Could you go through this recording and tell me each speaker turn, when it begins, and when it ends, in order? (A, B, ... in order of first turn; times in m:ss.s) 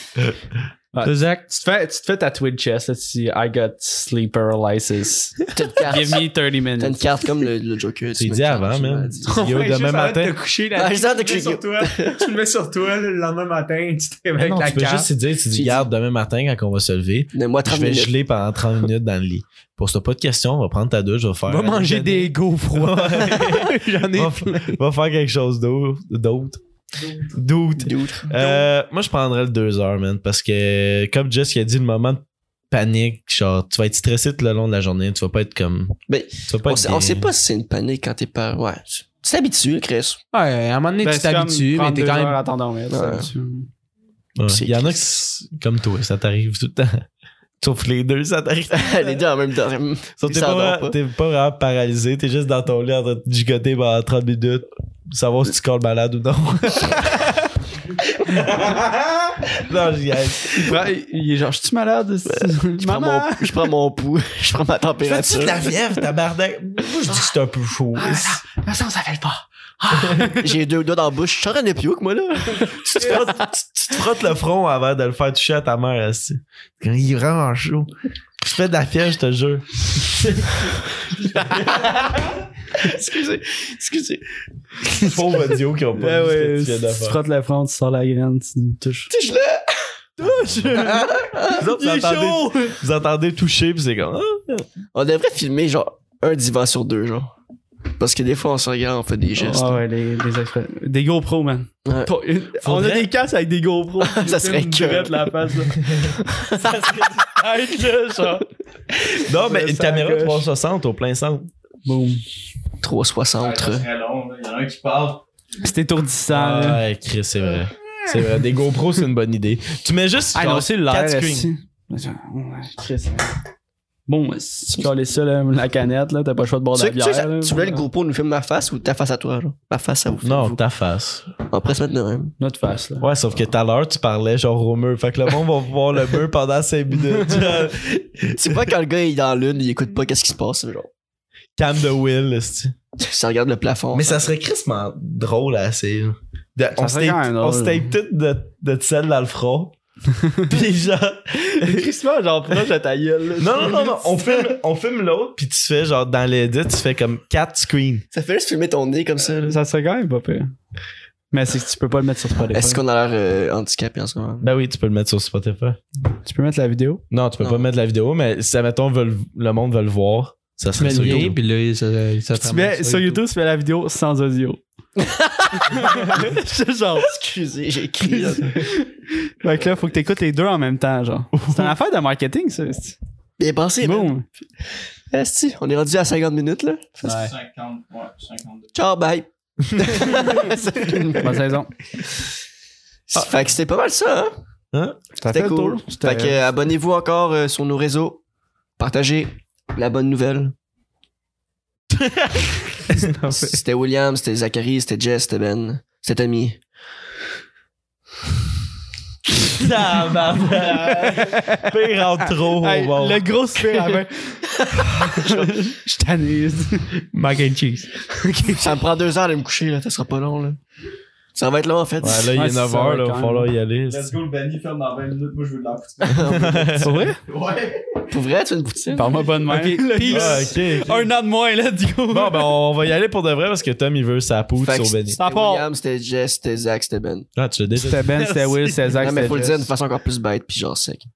0:00.9-0:07.2 A
0:01.0-0:01.4 B
0:05.5-0:06.3 C
0:06.8-0:09.5 C
0:08.2-0:10.4 D
0:09.2-0:15.1 B
0:10.7-0:12.3 C
0:14.4-0:26.6 D
0:15.5-0:15.9 C
0:17.3-0:18.1 C
0:21.5-0:24.8 B
0:27.3-0:37.3 D
0:27.8-0:28.6 C
0:36.1-0:40.2 C
0:40.3-0:42.4 B
0:41.0-0:43.7 A
0:42.9-0:43.3 C
0:44.4-0:47.0 D
0:44.5-0:45.2 C
0:47.6-0:49.2 D
0:48.7-0:51.0 C
0:50.2-0:57.4 D
0:58.1-1:00.8 D
1:00.5-1:03.7 A
1:02.3-1:05.7 C
1:05.0-1:08.4 D
1:08.0-1:10.4 A
1:09.9-1:10.3 D
1:10.4-1:13.4 C
1:12.9-1:17.9 D
1:18.4-1:22.0 D
1:21.7-1:22.1 C
1:22.7-1:24.2 C
1:24.9-1:27.2 D
1:26.0-1:29.1 A
1:29.1-1:29.8 C
1:30.2-1:32.8 A
1:30.8-1:31.6 C
1:31.6-1:34.7 D
1:34.9-1:37.4 C
1:38.0-1:39.8 C
1:39.4-1:45.8 A
1:41.9-1:42.1 C
1:42.6-1:43.1 D
1:44.0-1:46.6 C
1:46.6-1:50.4 A
1:46.6-1:47.1 D
1:49.2-1:51.5 D
1:51.8-1:52.2 A
1:52.8-1:53.9 C
1:53.4-1:55.2 E
1:55.6-1:56.8 A
1:56.3-2:01.5 D
2:00.3-2:03.3 A
2:04.1-2:07.8 A
2:06.8-2:10.6 C
2:10.2-2:11.3 D
2:11.5-2:12.3 C
2:12.4-2:13.1 A
2:13.0-2:18.1 D
2:17.3-2:17.7 C
2:18.3-2:20.9 C
2:21.6-2:22.8 D
2:23.0-2:24.3 C
2:23.9-2:29.8 D
2:26.8-2:27.9 A
2:30.4-2:31.8 D
2:31.6-2:33.9 A
2:33.4-2:38.1 D
2:38.1-2:39.6 C
2:39.4-2:40.5 A
2:41.3-2:42.8 A
2:42.5-2:44.5 C
2:44.4-2:45.8 D
2:46.2-2:47.0 A
2:47.1-2:51.4 D
2:47.4-2:47.7 C
2:50.8-2:53.2 B
2:52.4-2:54.6 A
2:55.0-2:56.3 C
2:55.5-2:57.2 A
2:57.0-2:58.7 C
2:58.0-3:03.0 A
3:01.3-3:01.7 D
3:03.4-3:04.1 C
3:03.8-3:04.3 A
3:05.1-3:07.2 C
3:07.1-3:08.7 E
3:08.7-3:11.5 C
3:11.2-3:11.7 A
3:13.1-3:14.3 C
3:14.7-3:15.0 D
3:15.2-3:16.4 A
3:15.2-3:18.2 C
3:18.8-3:20.5 C
3:21.9-3:22.6 D
3:22.9-3:23.6 B
3:23.3-3:26.6 C
3:29.5-3:33.3 D
3:32.6-3:37.0 A
3:33.6-3:34.0 B
3:35.2-3:35.5 C
3:37.1-3:38.6 B
3:38.5-3:40.6 C
3:41.4-3:42.3 C
3:42.0-3:44.1 D
3:42.3-3:43.5 A
3:43.9-3:46.4 E
3:46.1-3:46.8 C
3:46.1-3:47.1 D
3:46.8-3:47.2 A
3:47.2-3:48.1 E
3:48.1-3:49.2 C
3:48.9-3:52.5 A
3:49.5-3:50.6 B
3:50.1-3:51.1 D
3:52.1-3:55.2 D
3:54.6-3:57.3 C
3:55.2-3:55.7 A
3:57.4-3:59.4 D
3:57.7-3:59.7 A
3:59.0-4:01.1 C